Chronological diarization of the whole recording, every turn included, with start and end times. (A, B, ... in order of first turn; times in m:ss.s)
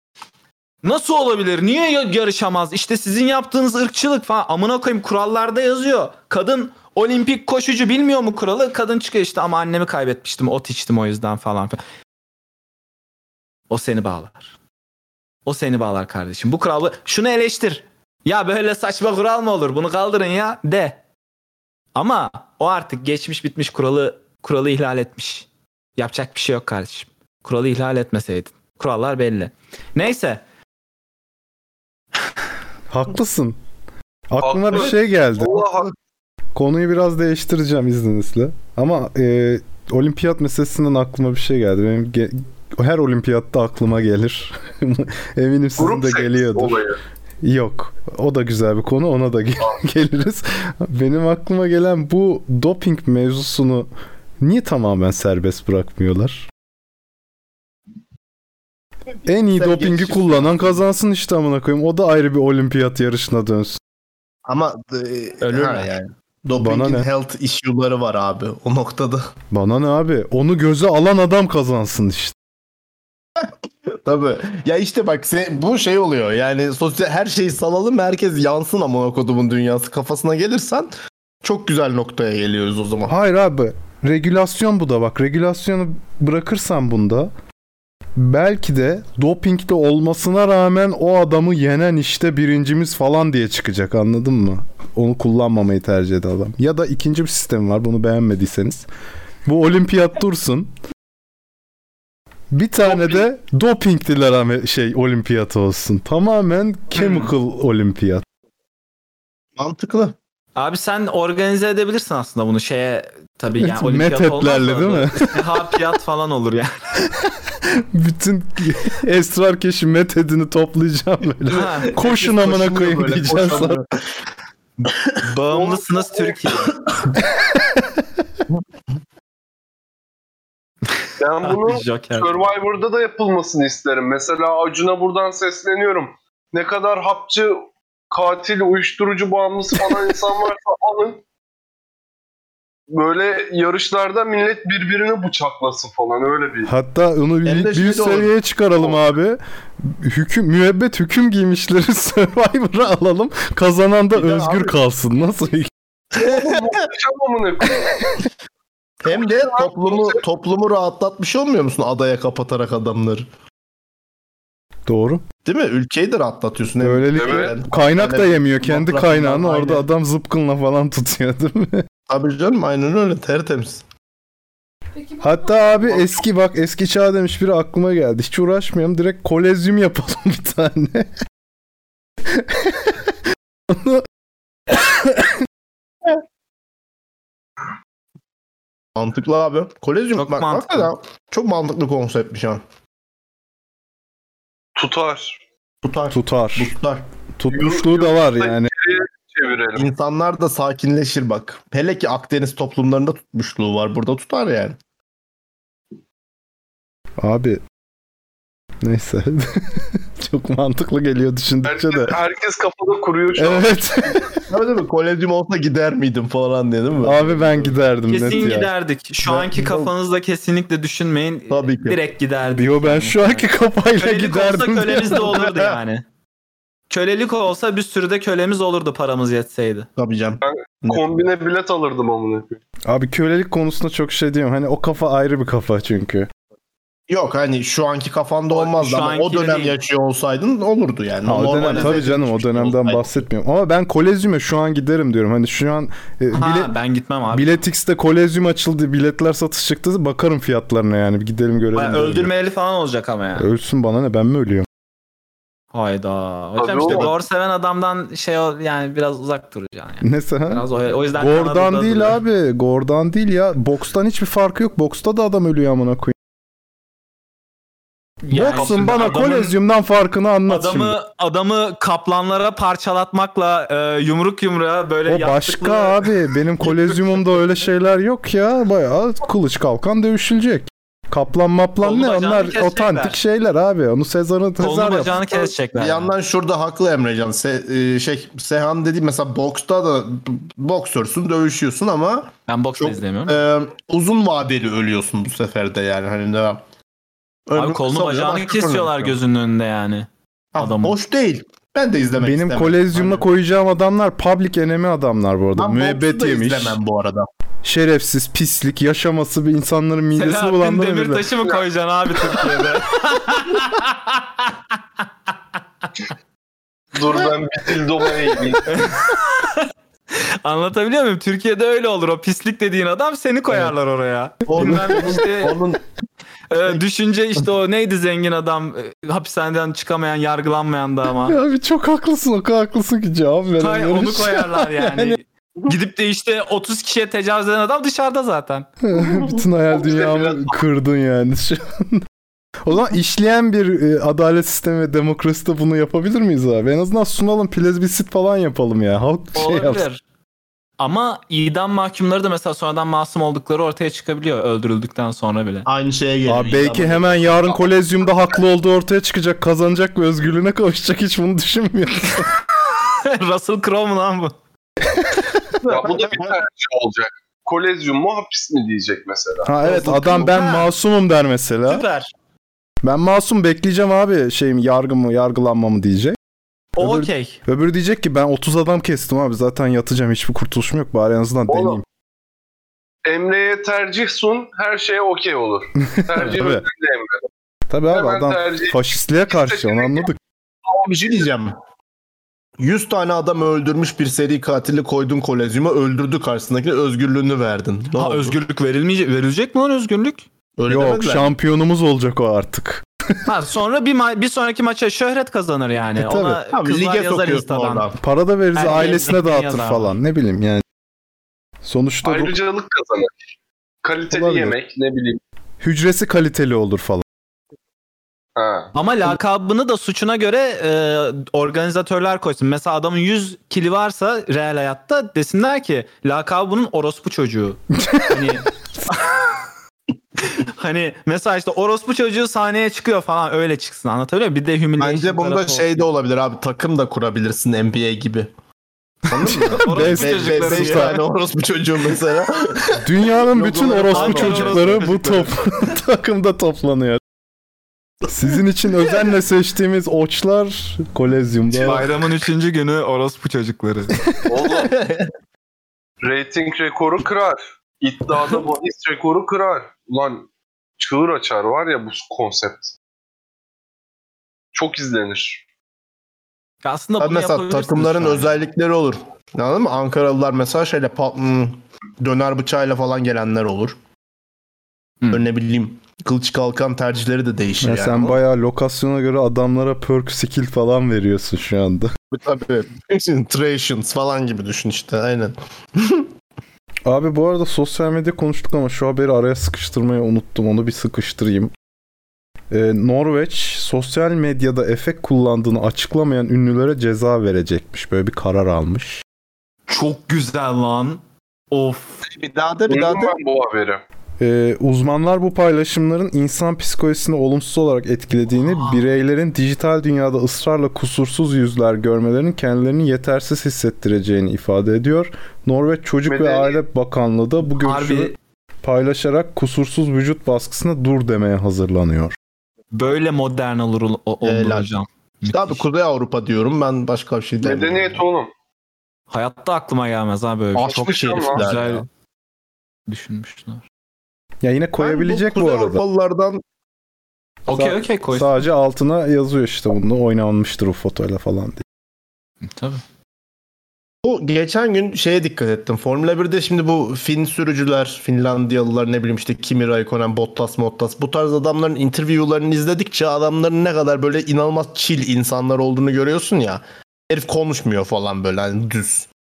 0:00.8-0:11.8 A
0:13.7-0:14.5 A
0:15.5-0:21.0 A
0:22.0-0:30.4 A
0:32.9-0:33.6 B
0:34.3-0:35.7 B
0:34.4-0:35.9 C
0:36.6-0:46.9 B
0:45.8-0:47.0 C
0:47.4-0:53.9 B
0:54.4-0:56.5 B
0:59.3-1:03.8 B
0:59.5-1:00.8 D
1:04.5-1:09.3 D
1:05.4-1:05.9 A
1:06.6-1:07.1 B
1:09.5-1:12.4 B
1:13.4-1:20.9 D
1:21.4-1:23.1 D
1:23.1-1:27.3 B
1:28.2-1:38.9 B
1:39.5-1:40.7 B
1:42.5-1:48.2 B
1:42.9-1:43.1 C
1:47.0-1:47.3 A
1:49.6-1:50.2 D
1:50.6-1:57.1 A
1:53.6-1:55.5 B
1:57.6-2:03.8 B
2:01.5-2:02.0 A
2:01.9-2:03.9 D
2:05.2-2:06.8 A
2:05.5-2:06.7 C
2:07.5-2:08.0 B
2:11.2-2:21.2 C
2:11.4-2:12.3 A
2:22.9-2:26.7 C
2:26.7-2:35.7 B
2:27.4-2:28.9 D
2:34.1-2:34.8 D
2:36.1-2:36.9 D
2:36.2-2:38.2 C
2:39.0-2:43.3 D
2:39.1-2:40.2 C
2:44.9-2:45.2 B
2:45.4-2:49.8 D
2:46.8-2:51.8 B
2:47.2-2:47.6 C
2:52.1-2:53.8 D
2:55.0-2:55.8 A
2:55.2-3:01.1 B
3:02.3-3:03.2 B
3:03.7-3:04.0 B
3:04.7-3:05.3 B
3:09.0-3:12.6 D
3:10.2-3:10.9 A
3:14.8-3:15.4 C
3:15.8-3:17.1 D
3:16.1-3:16.8 B
3:17.4-3:18.7 B
3:17.5-3:19.9 C
3:19.8-3:24.8 D
3:27.2-3:27.6 B
3:28.8-3:32.2 B
3:31.6-3:34.2 C
3:33.4-3:34.4 B
3:34.5-3:37.8 D
3:37.0-3:38.7 B
3:38.1-3:46.0 A
3:39.2-3:39.9 D
3:41.5-3:42.0 D
3:42.6-3:45.4 B
3:44.9-3:45.8 D
3:46.9-3:49.9 A
3:50.0-3:51.0 D
3:50.4-3:52.6 C
3:52.9-3:56.3 B
3:57.1-4:03.2 D
3:58.5-3:59.8 A
4:01.3-4:06.7 B
4:01.6-4:02.0 A
4:06.3-4:07.5 A
4:07.3-4:12.3 B
4:11.7-4:13.5 A
4:13.4-4:14.7 B
4:15.7-4:22.2 A
4:16.6-4:17.1 C
4:20.0-4:20.6 B
4:21.2-4:26.2 B
4:28.2-4:29.6 A
4:28.3-4:31.0 B
4:28.5-4:28.9 C
4:30.5-4:37.1 A
4:35.1-4:45.2 B
4:41.8-4:43.2 A
4:44.6-4:46.1 A
4:45.3-4:56.6 D
4:52.5-4:53.4 A
4:57.5-4:59.2 D
4:57.6-5:01.0 A
5:00.6-5:03.3 D
5:02.2-5:06.8 B
5:05.6-5:07.3 D
5:07.6-5:11.2 B
5:10.2-5:15.1 A
5:15.8-5:16.1 A
5:17.0-5:18.8 C
5:18.7-5:25.6 A
5:24.5-5:25.8 D
5:24.6-5:24.9 B
5:26.5-5:31.4 A
5:31.3-5:35.2 B
5:33.6-5:38.7 A
5:38.8-5:42.0 B
5:38.9-5:39.4 D
5:39.7-5:40.5 C
5:42.6-5:49.8 B
5:49.4-5:50.0 A
5:50.8-5:55.7 A
5:55.6-5:57.6 D
5:56.3-6:02.4 B
6:02.8-6:04.4 A
6:04.9-6:05.3 B
6:05.6-6:06.4 D
6:05.7-6:09.5 C
6:09.4-6:11.8 B
6:09.6-6:10.3 D
6:09.6-6:10.7 A
6:11.7-6:12.1 A
6:12.8-6:16.2 B
6:16.8-6:17.4 A
6:16.8-6:21.8 B
6:21.5-6:21.8 C
6:23.1-6:27.2 C
6:25.8-6:26.6 B
6:27.7-6:30.2 B
6:27.9-6:30.1 C
6:30.7-6:31.6 D
6:32.6-6:38.4 D
6:38.0-6:40.3 A
6:40.6-6:41.3 D
6:40.7-6:42.8 B
6:43.2-6:47.9 A
6:46.0-6:46.4 B
6:46.5-6:48.0 D
6:48.0-6:50.6 B
6:48.6-6:49.9 A
6:51.6-6:52.4 B
6:52.0-6:53.2 C
6:53.8-6:55.2 C
6:54.1-6:54.6 B
6:55.6-6:57.0 B
6:58.4-6:58.7 C
6:58.8-7:09.3 A
7:07.8-7:08.4 B
7:10.2-7:15.8 A
7:14.8-7:18.3 D
7:19.1-7:22.8 D
7:19.2-7:20.9 A
7:19.5-7:21.0 B
7:22.8-7:27.0 B
7:23.4-7:25.3 C
7:23.4-7:24.6 D
7:23.9-7:25.1 A
7:28.1-7:31.9 B
7:31.6-7:34.1 A
7:33.9-7:34.3 B
7:34.2-7:34.8 C
7:34.7-7:35.1 D
7:36.0-7:40.3 C
7:40.8-7:42.7 C
7:44.5-7:45.4 C
7:46.6-7:48.3 A
7:47.0-7:53.8 D
7:55.1-7:58.2 D
7:57.6-8:01.9 B
8:02.1-8:06.1 D
8:06.9-8:11.5 B
8:12.5-8:19.0 B
8:19.7-8:22.0 A
8:22.0-8:23.2 D
8:22.7-8:23.8 C
8:24.2-8:42.2 B
8:28.4-8:28.8 A
8:36.1-8:36.6 C
8:37.6-8:38.2 A
8:42.7-8:45.6 A
8:44.2-8:44.7 D
8:45.2-8:48.0 D
8:47.4-8:48.3 C
8:49.1-8:51.9 A
8:50.6-8:51.9 D
8:51.0-8:51.5 C
8:52.9-8:53.6 A
8:54.4-8:55.8 B
8:54.8-8:56.4 D
8:57.5-8:58.4 A
8:57.5-9:01.6 B
9:02.5-9:02.8 A
9:04.0-9:19.1 D